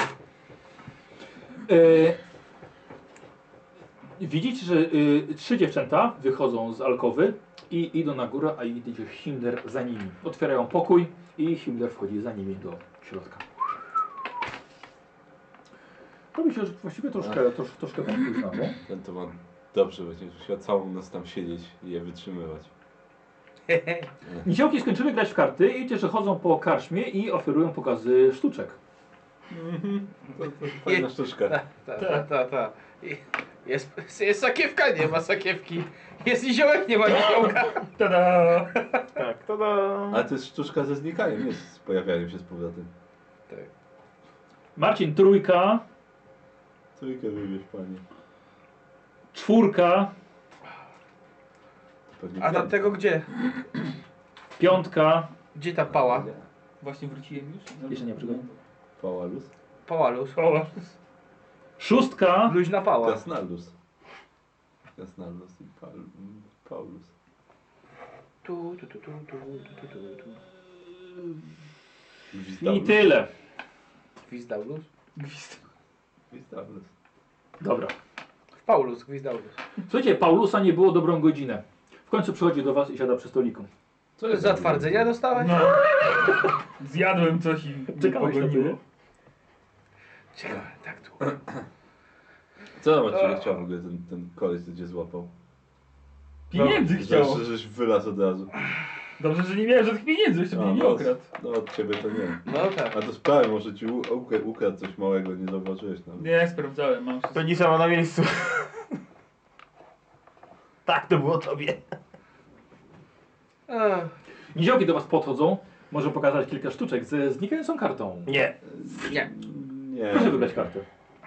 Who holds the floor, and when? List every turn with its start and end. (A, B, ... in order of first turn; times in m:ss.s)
0:01.6-0:02.2 A
0:04.2-0:13.4 A
0:16.3-0:18.8 A
0:18.8-0:22.7 B
0:23.7-0:24.1 C
0:24.4-0:28.8 A
0:29.5-0:31.6 B
0:30.8-0:37.9 C
0:32.0-0:32.3 D
0:37.1-0:38.7 D
0:38.7-0:39.0 C
0:39.1-0:40.3 E
0:40.1-0:42.9 B
0:44.8-0:45.8 A
0:47.0-0:48.0 B
0:49.3-0:50.1 A
0:52.1-0:53.0 B
0:52.4-0:53.3 C
0:54.6-0:55.3 A
0:55.5-0:56.3 C
0:55.9-0:56.4 B
0:56.8-0:58.6 D
0:57.9-0:58.4 A
0:59.0-0:59.5 B
0:59.9-1:00.4 C
1:00.4-1:00.9 D
1:01.8-1:02.6 A
1:02.4-1:03.2 C
1:03.0-1:03.7 B
1:05.0-1:07.1 B
1:08.4-1:10.4 C
1:12.3-1:13.1 B
1:12.6-1:13.3 A
1:14.3-1:14.9 C
1:15.2-1:15.6 D
1:16.3-1:16.9 B
1:17.6-1:18.0 A
1:18.6-1:19.6 C
1:19.9-1:23.7 A
1:24.2-1:25.1 B
1:24.3-1:25.8 C
1:25.3-1:28.8 D
1:25.8-1:26.4 A
1:27.9-1:28.8 A
1:30.3-1:31.3 C
1:32.8-1:35.3 B
1:36.5-1:37.4 D
1:36.6-1:38.5 B
1:39.2-1:41.3 D
1:40.5-1:46.3 B
1:42.4-1:43.0 C
1:46.2-1:47.7 D
1:47.3-1:48.8 E
1:50.9-1:51.8 E
1:53.7-1:54.1 C
1:54.5-1:58.3 A
1:58.3-1:58.6 E
1:58.7-2:00.6 B
2:00.1-2:00.9 A